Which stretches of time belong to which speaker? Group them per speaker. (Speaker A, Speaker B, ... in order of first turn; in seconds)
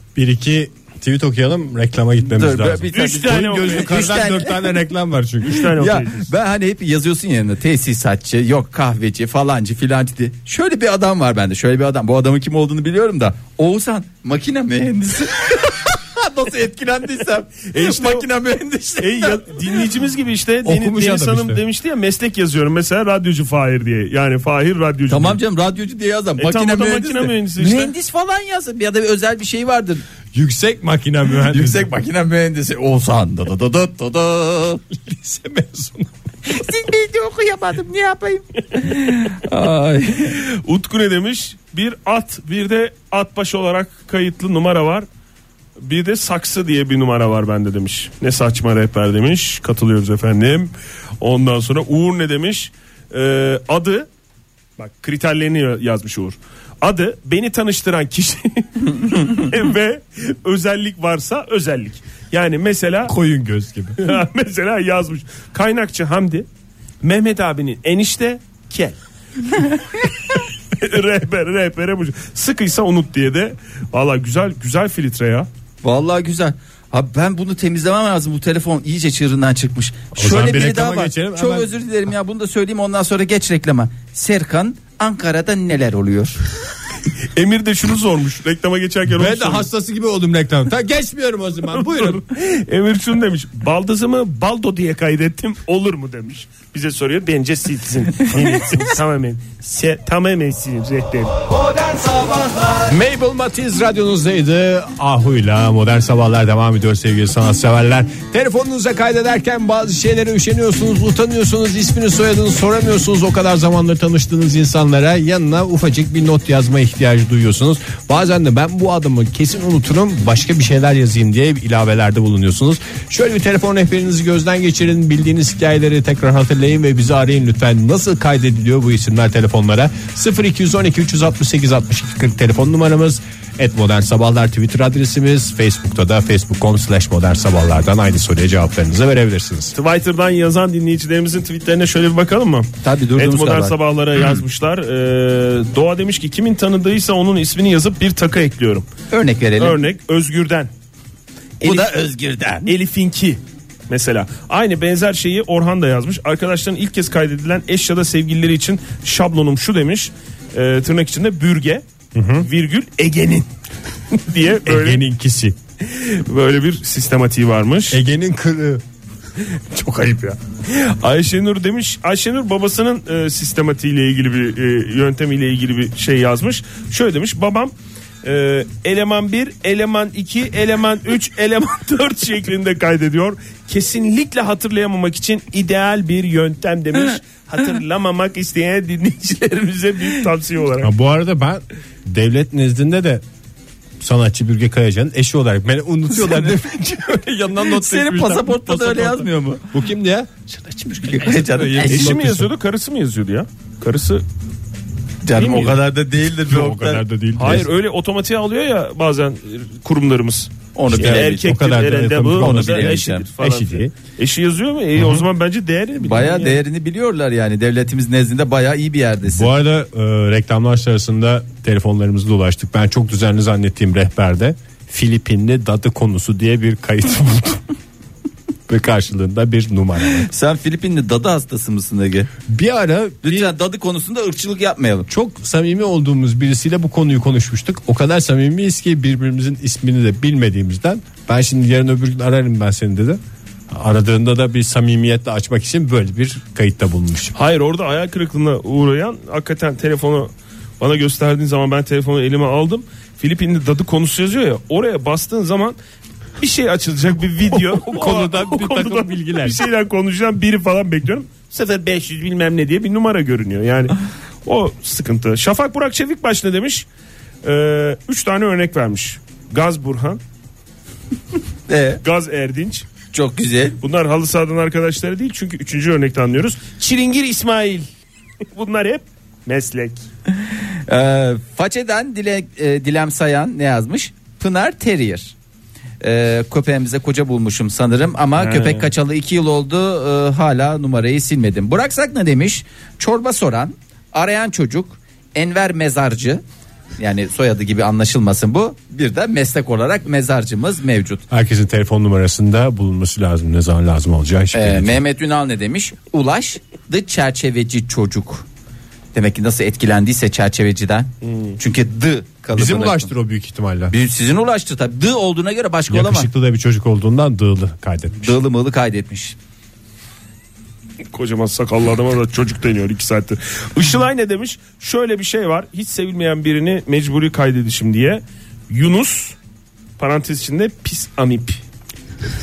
Speaker A: 0.1-5.7, 20.6-21.6, 30.3-31.9, 34.9-36.1, 63.1-64.0, 80.1-81.7, 89.1-92.2, 102.9-139.7, 162.1-162.5, 164.7-165.6, 167.9-168.8, 169.4-170.4, 190.8-193.2, 194.0-202.5, 206.4-207.7, 210.9-213.9, 215.0-215.2, 219.3-227.6, 228.7-230.3, 232.5-233.5, 235.1-243.2, 243.7-247.3, 257.5-259.6, 301.3-305.0, 312.5-313.9, 315.9-318.4
Speaker B: 2.2-4.7, 5.7-19.6, 25.1-30.0, 31.5-34.8, 36.5-40.4, 75.8-86.4, 142.8-143.7, 149.1-149.8, 151.6-152.7, 196.1-196.6, 197.6-199.6, 201.0-202.2, 205.2-207.0, 210.7-211.6, 212.4-213.2, 216.0-219.5, 230.2-232.3, 233.2-235.1, 271.7-272.0, 273.1-273.8, 280.9-285.3, 286.0-296.4, 297.0-301.2, 304.5-308.4, 309.1-313.1, 313.9-316.3, 318.2-319.3
Speaker C: 2.9-4.2, 5.4-6.3, 17.7-18.3, 19.0-25.4, 26.4-27.9, 40.3-45.1, 45.8-54.1, 54.8-63.1, 64.0-66.5, 67.0-69.0, 70.0-75.5, 87.3-89.7, 91.7-101.4, 139.7-148.9, 149.6-150.7, 151.6-151.9, 152.6-161.8, 162.4-163.5, 164.1-165.0, 165.8-168.0, 170.7-190.9, 201.8-204.2, 205.3-205.8, 207.3-216.6, 247.3-255.8, 256.4-266.9, 267.4-270.2, 272.0-272.9, 273.8-277.9, 278.5-280.0, 288.4-288.9, 311.3-311.6, 321.1-329.4, 330.0-331.6